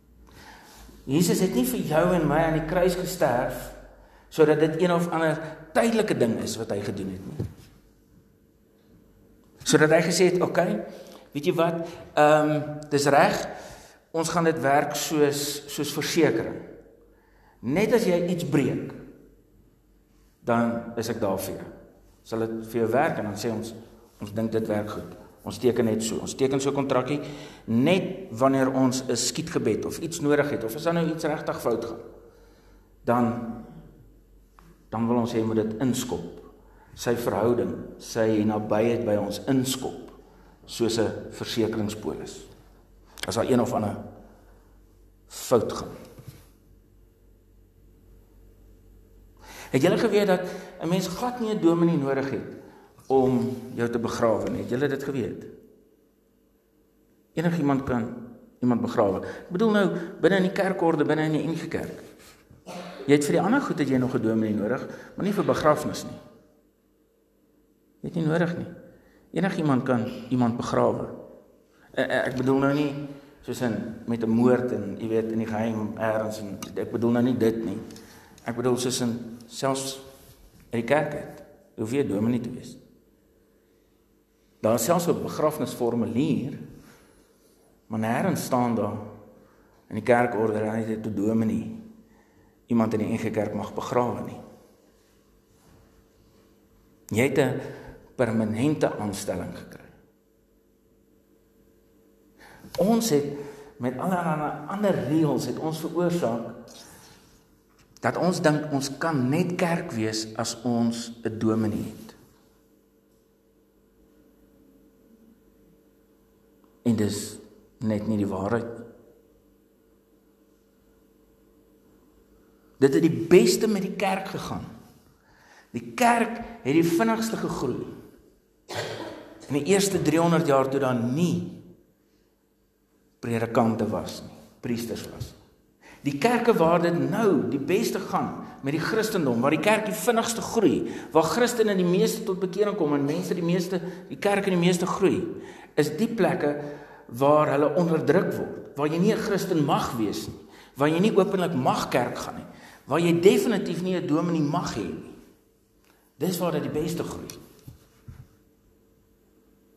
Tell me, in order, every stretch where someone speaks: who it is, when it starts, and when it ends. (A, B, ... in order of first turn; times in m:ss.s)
0:01.1-0:03.8 A
0:04.3-0:07.4 A
0:09.6-0:13.5 A
0:14.1-0:16.6 A
0:17.6-0:19.0 A
0:20.4-0:21.7 A
0:22.2-0:32.0 A
0:33.0-0:33.6 A
0:34.9-0:42.5 A
0:43.2-0:44.0 A
0:45.3-0:46.0 A
0:49.7-0:52.6 A
0:53.1-0:55.5 A
0:57.4-1:02.0 A
1:03.1-1:06.2 A
1:08.0-1:08.7 A
1:09.3-1:11.1 A
1:11.9-1:17.8 A
1:18.4-1:20.0 A
1:20.7-1:22.8 A
1:24.6-1:26.6 A
1:27.9-1:29.1 A
1:29.9-1:31.8 A
1:32.7-1:34.4 A
1:37.1-1:37.6 A
1:38.2-1:39.9 A
1:42.8-1:46.6 A
1:48.0-1:52.2 A
1:56.8-1:58.8 A
2:02.8-2:04.7 A
2:05.7-2:07.9 A
2:09.5-2:11.6 A
2:13.2-2:15.4 A
2:16.0-2:35.2 A
2:36.2-2:37.4 A